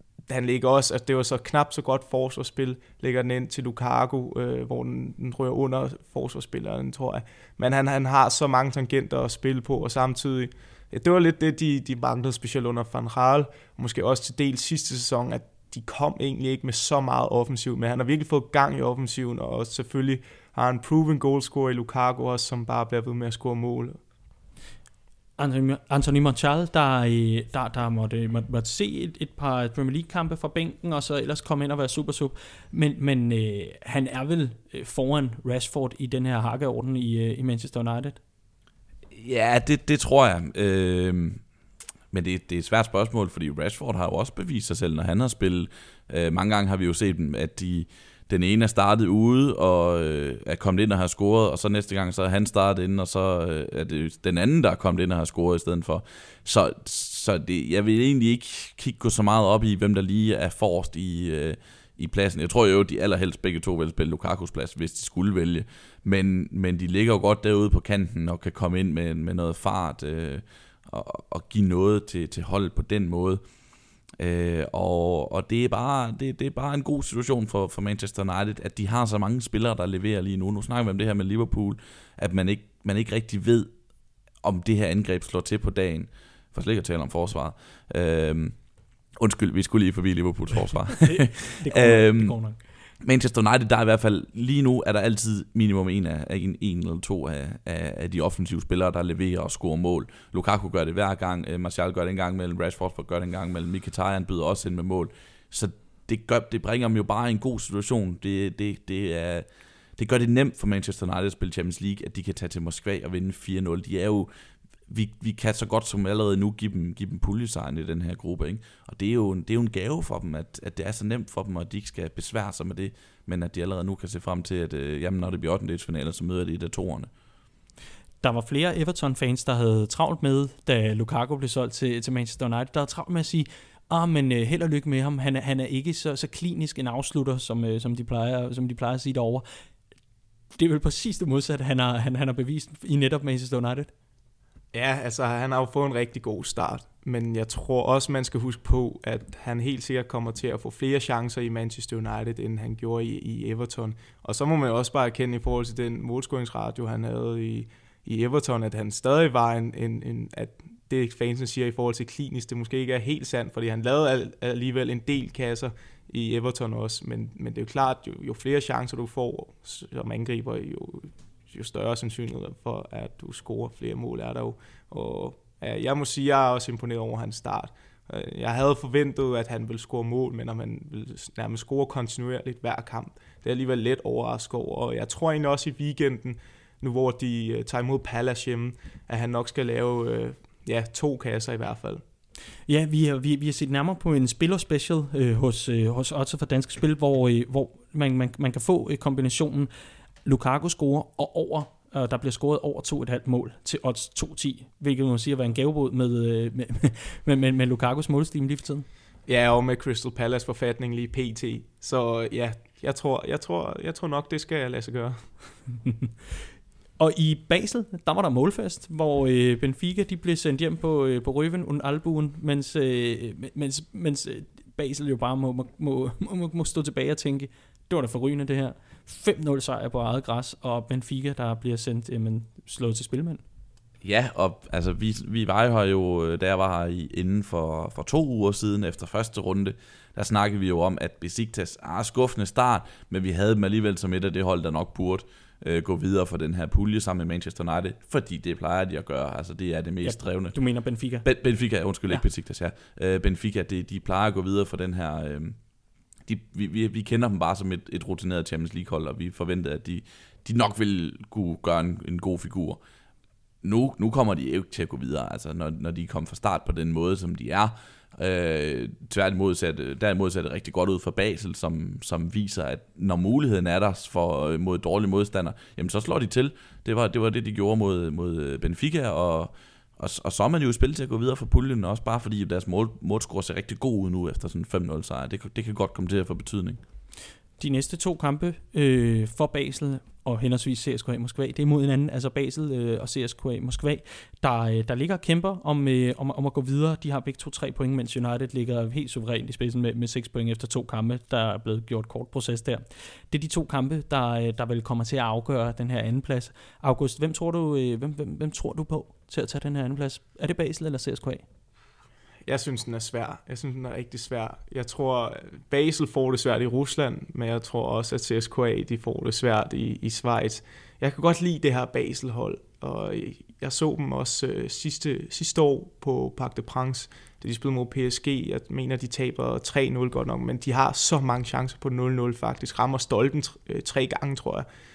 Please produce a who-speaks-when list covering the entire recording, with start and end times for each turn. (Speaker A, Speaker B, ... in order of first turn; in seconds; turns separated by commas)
Speaker A: 0.3-24.0, Speaker B: 25.4-38.2, Speaker C: 39.1-41.4, Speaker C: 42.1-73.4, Speaker C: 74.2-83.7, Speaker C: 84.4-88.5, Speaker C: 89.2-92.3, Speaker B: 91.0-92.6, Speaker C: 93.0-109.5, Speaker C: 110.0-114.3, Speaker C: 114.9-127.1, Speaker B: 128.2-139.4, Speaker B: 140.5-143.9, Speaker A: 144.7-192.0, Speaker B: 192.7-199.7, Speaker B: 200.2-208.8, Speaker A: 209.3-215.2, Speaker B: 217.0-233.4, Speaker C: 234.0-250.5, Speaker B: 250.0-251.2, Speaker C: 251.2-255.6, Speaker C: 256.2-262.8, Speaker C: 263.6-286.8, Speaker B: 287.6-311.4, Speaker A: 312.4-334.7